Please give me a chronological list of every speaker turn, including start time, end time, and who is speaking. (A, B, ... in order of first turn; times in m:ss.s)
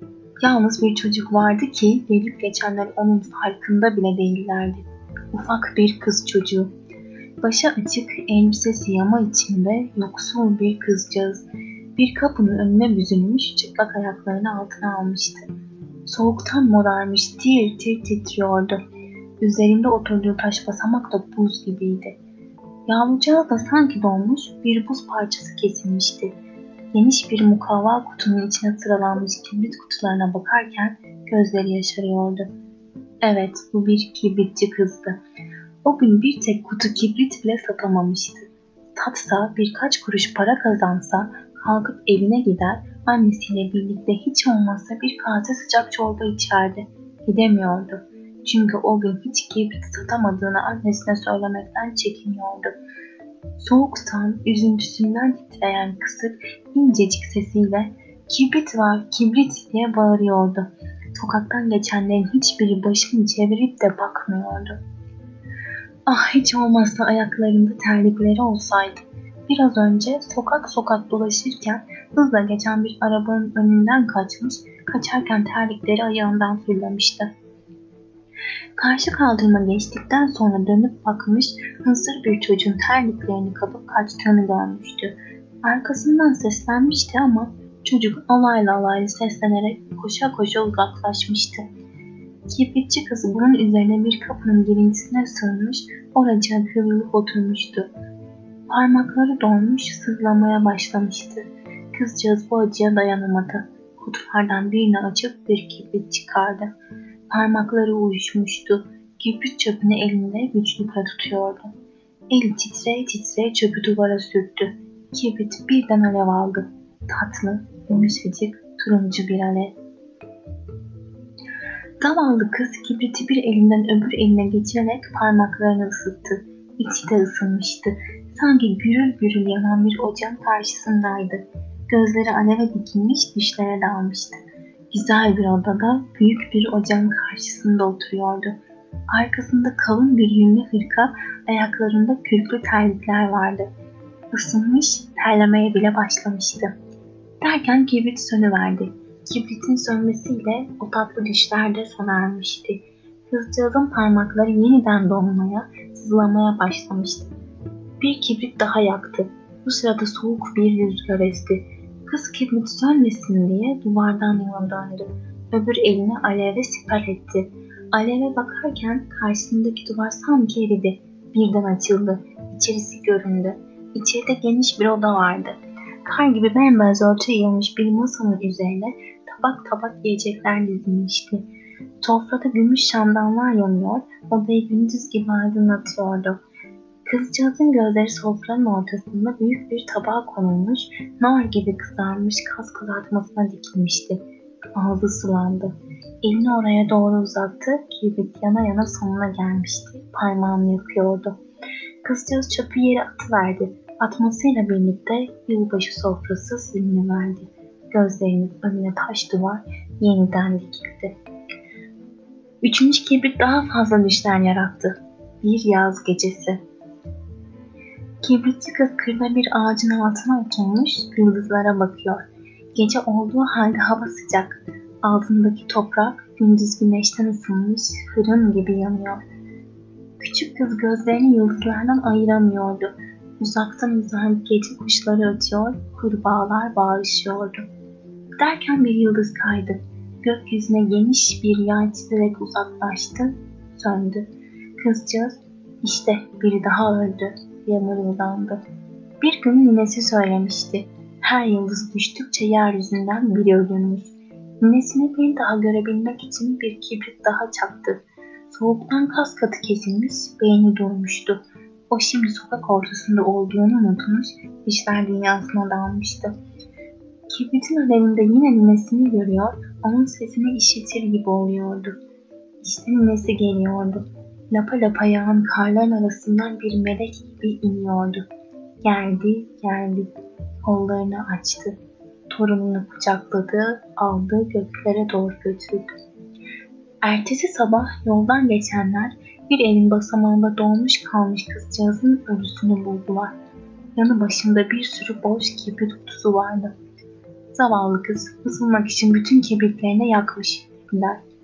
0:00.4-0:06.7 A
0:07.4-0:15.4 A
0:16.0-0:18.8 A
0:19.4-0:22.2 A
0:22.9-0:26.3 A
0:26.9-0:32.5 A
0:33.2-0:35.2 A
0:35.8-0:52.8 A
0:53.6-1:04.8 A
1:06.1-1:17.3 A
1:18.8-1:31.6 A
1:32.5-1:37.9 A
1:38.7-1:46.7 A
1:47.3-1:51.7 A
1:52.3-1:59.8 A
2:02.0-2:18.6 A
2:19.1-2:23.7 A
2:24.3-2:26.7 A
2:27.4-2:37.3 A
2:38.0-3:01.4 A
3:02.0-3:06.4 A
3:07.0-3:14.2 A
3:14.8-3:21.4 A
3:22.0-3:31.2 A
3:32.6-3:36.6 A
3:38.2-3:49.2 A
3:50.2-3:57.7 A
3:58.4-4:04.3 A
4:04.8-4:08.6 A
4:09.2-4:26.3 A
4:27.3-4:32.0 A
4:32.6-4:38.2 A
4:38.8-4:40.1 A
4:40.6-4:41.7 A
4:42.3-4:45.9 A
4:47.0-4:53.4 A
4:54.0-4:56.7 A
4:57.5-5:01.2 A